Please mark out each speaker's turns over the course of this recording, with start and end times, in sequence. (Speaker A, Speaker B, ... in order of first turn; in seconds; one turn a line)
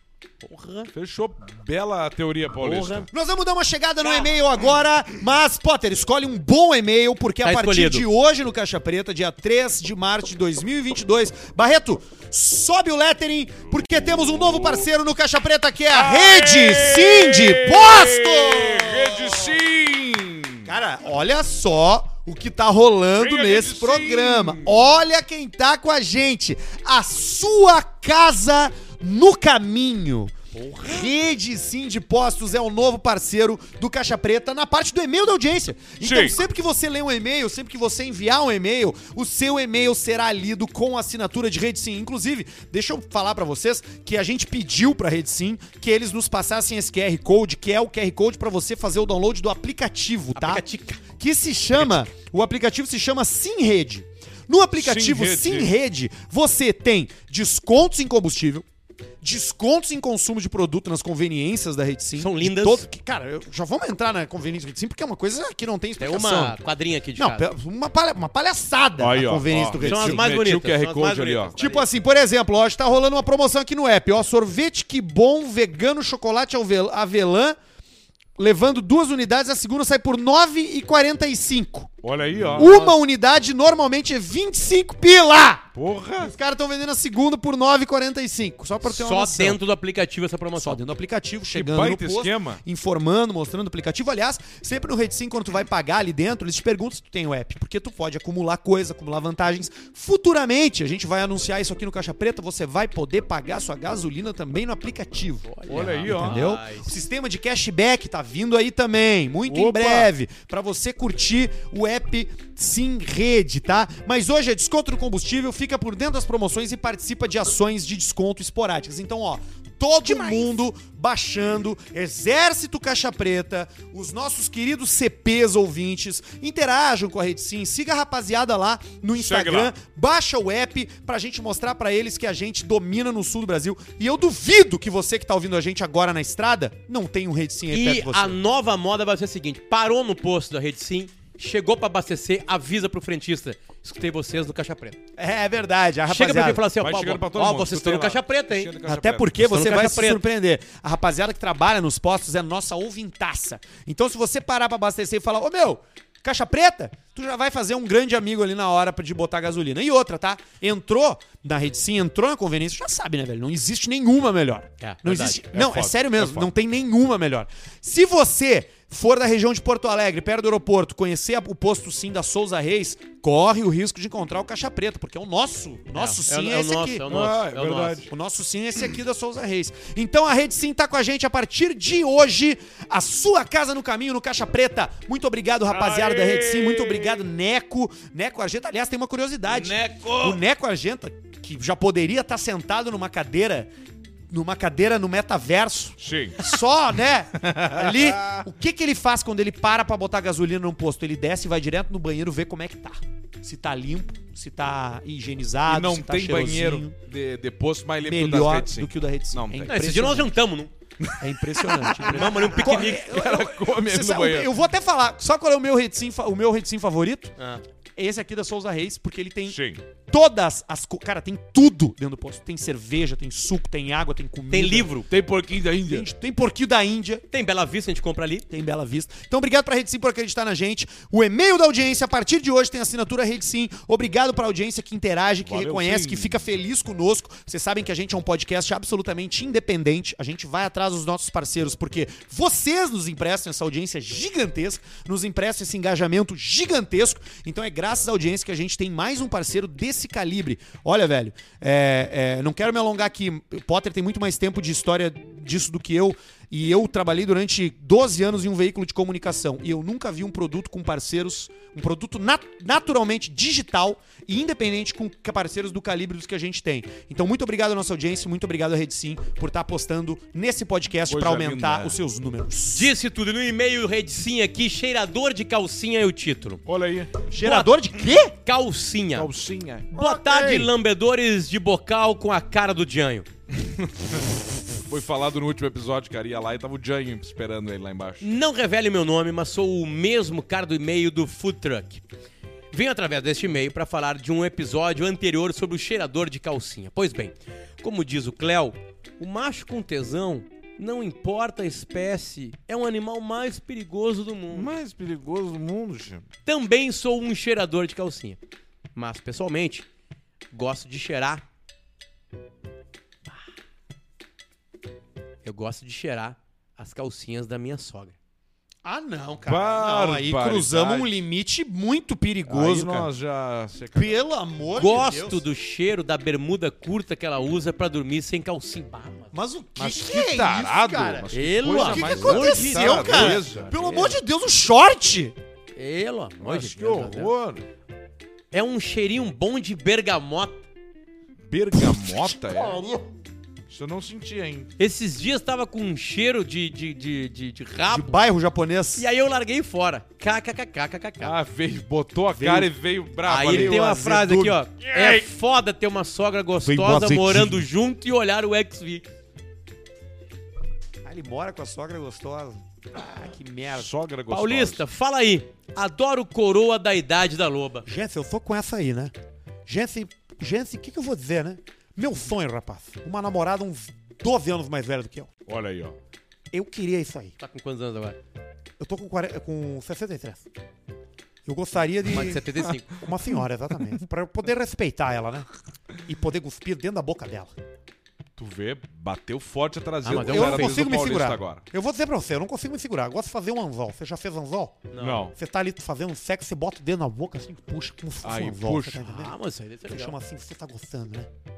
Speaker A: 0.4-0.9
Speaker B: 0.9-3.1
Speaker A: 2.6-3.1
Speaker C: 3.1-19.6
Speaker A: 4.0-4.3
Speaker A: 7.4-8.1
Speaker B: 14.2-14.8
Speaker B: 15.9-20.7
Speaker C: 20.6-58.6
Speaker B: 23.1-24.9
Speaker A: 30.6-30.8
Speaker B: 36.0-36.4
Speaker A: 50.3-51.0
Speaker B: 54.8-55.7
Speaker C: 59.2-66.6
Speaker A: 62.1-62.9
Speaker A: 66.0-67.5
Speaker C: 67.2-70.3
Speaker B: 69.0-71.5
Speaker A: 69.8-71.9
Speaker C: 71.6-77.6
Speaker C: 78.4-82.0
Speaker B: 82.0-82.8
Speaker C: 82.5-85.7
Speaker A: 82.6-82.9
Speaker B: 85.7-86.3
Speaker C: 86.2-89.6
Speaker A: 88.8-90.8
Speaker C: 90.5-105.5
Speaker B: 91.5-92.6
Speaker A: 105.5-107.0
Speaker B: 105.7-106.4
Speaker C: 106.0-138.4
Speaker B: 109.5-110.1
Speaker B: 129.1-129.7
Speaker A: 137.7-145.0
Speaker C: 145.2-146.6
Speaker A: 146.1-148.7
Speaker B: 146.8-149.3
Speaker C: 148.8-177.1
Speaker A: 149.4-150.2
Speaker A: 164.8-165.4
Speaker B: 165.5-166.5
Speaker A: 175.9-178.0
Speaker B: 177.1-178.1
Speaker C: 178.1-193.7
Speaker B: 185.7-187.2
Speaker B: 189.5-190.4
Speaker C: 194.3-206.9
Speaker B: 196.0-196.5
Speaker B: 197.4-198.4
Speaker B: 205.7-209.8
Speaker C: 208.0-210.4
Speaker A: 209.7-210.7
Speaker B: 211.0-214.5
Speaker C: 211.2-217.3
Speaker A: 212.0-213.1
Speaker A: 217.4-217.6
Speaker C: 217.9-224.9
Speaker B: 219.5-219.8
Speaker A: 224.5-225.1
Speaker B: 225.1-226.1
Speaker C: 225.9-227.2
Speaker A: 227.3-228.5
Speaker C: 228.5-272.9
Speaker B: 235.4-236.4
Speaker B: 271.1-272.0
Speaker A: 272.7-276.6
Speaker B: 276.6-277.2
Speaker C: 277.3-278.3
Speaker A: 277.4-277.7
Speaker A: 278.4-279.3
Speaker B: 279.1-280.7
Speaker A: 279.9-283.2
Speaker B: 283.6-288.3
Speaker A: 288.2-292.0
Speaker A: 292.7-304.8
Speaker B: 304.5-306.2
Speaker A: 306.4-308.4
Speaker A: 308.9-309.9
Speaker A: 310.5-311.4
Speaker A: 315.4-318.2
Speaker C: 318.8-323.1
Speaker B: 319.4-321.1
Speaker B: 322.4-324.2
Speaker C: 323.9-325.4
Speaker A: 324.8-329.3
Speaker C: 329.3-335.4
Speaker B: 329.8-333.8
Speaker A: 331.3-334.1
Speaker A: 335.8-337.3
Speaker B: 336.4-337.6
Speaker A: 338.5-340.6
Speaker B: 341.5-342.9
Speaker B: 343.7-344.7
Speaker A: 344.8-348.2
Speaker C: 347.9-349.1
Speaker A: 349.0-351.3
Speaker B: 351.2-353.8
Speaker C: 352.3-352.7
Speaker A: 353.2-359.1
Speaker C: 353.4-354.6
Speaker B: 354.8-355.2
Speaker C: 356.6-357.6
Speaker C: 361.0-363.9
Speaker B: 363.7-364.8
Speaker A: 364.3-367.9
Speaker C: 367.9-369.1
Speaker C: 369.7-375.3
Speaker B: 375.5-376.0
Speaker C: 376.5-377.3
Speaker A: 377.4-378.2
Speaker C: 378.8-380.4
Speaker C: 381.4-385.5
Speaker A: 382.1-383.0
Speaker C: 386.1-387.5
Speaker B: 388.4-391.6
Speaker A: 390.0-390.8
Speaker C: 390.2-399.4
Speaker A: 394.9-395.3
Speaker B: 395.0-395.3
Speaker B: 398.2-399.1
Speaker A: 399.1-400.1
Speaker C: 399.9-401.3